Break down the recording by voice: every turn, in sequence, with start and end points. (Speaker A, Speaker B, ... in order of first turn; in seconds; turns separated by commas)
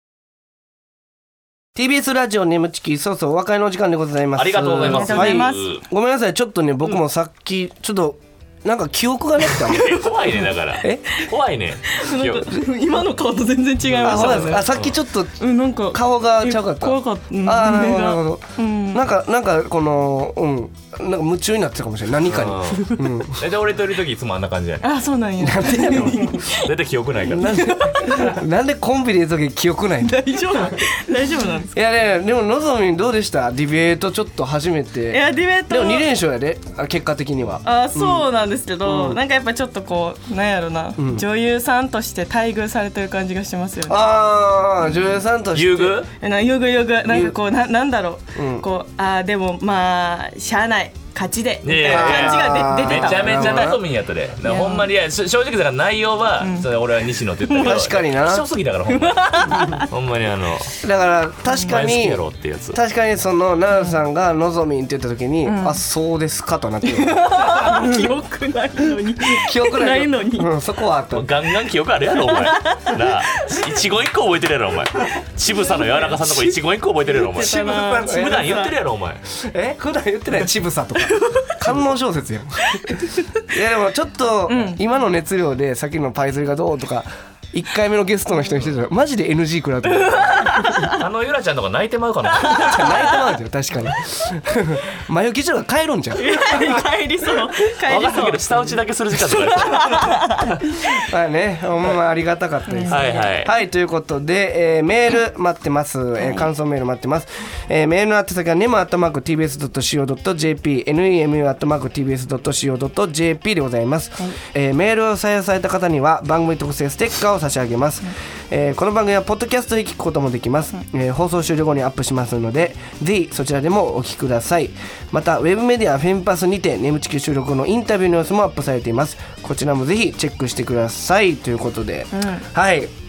Speaker A: 1.7-10.0, Speaker B: 4.3-5.8, Speaker C: 4.8-5.6, Speaker B: 9.7-12.6, Speaker C: 9.8-10.3, Speaker C: 11.9-14.7, Speaker B: 13.8-15.0, Speaker A: 14.0-15.4, Speaker C: 15.4-19.0, Speaker A: 15.9-23.4, Speaker B: 22.2-24.9, Speaker C: 24.8-26.7, Speaker A: 25.4-26.1, Speaker B: 25.8-27.6, Speaker C: 27.3-28.4, Speaker A: 27.3-30.2, Speaker C: 30.0-31.8, Speaker A: 31.7-38.2, Speaker C: 35.1-36.1, Speaker C: 37.6-44.1, Speaker A: 38.8-39.2, Speaker A: 41.0-41.2, Speaker A: 43.9-46.0, Speaker B: 45.5-46.1, Speaker C: 46.2-53.8, Speaker A: 47.0-47.4, Speaker A: 48.3-48.6, Speaker B: 51.6-60.8, Speaker A: 51.9-53.8, Speaker C: 54.4-54.9, Speaker C: 56.4-56.7, Speaker C: 57.5-57.8, Speaker A: 57.6-58.5, Speaker C: 58.9-59.9, Speaker A: 60.8-62.2, Speaker B: 61.6-62.8, Speaker A: 62.7-68.0, Speaker C: 65.5-65.8, Speaker C: 66.8-70.5, Speaker A: 69.2-71.3, Speaker B: 71.1-79.2, Speaker C: 72.2-73.6, Speaker C: 75.6-76.2, Speaker C: 77.1-78.7, Speaker A: 77.4-78.6, Speaker A: 79.3-90.7, Speaker C: 81.0-81.6, Speaker C: 82.7-83.1, Speaker C: 84.5-84.8, Speaker C: 89.9-91.0, Speaker B: 90.9-93.0, Speaker C: 92.3-93.2, Speaker A: 92.4-96.7, Speaker C: 96.2-98.4, Speaker B: 97.9-100.3, Speaker C: 99.3-101.0, Speaker A: 101.1-132.9, Speaker C: 102.7-103.4, Speaker B: 102.9-103.5, Speaker C: 106.2-106.5, Speaker C: 132.1-132.4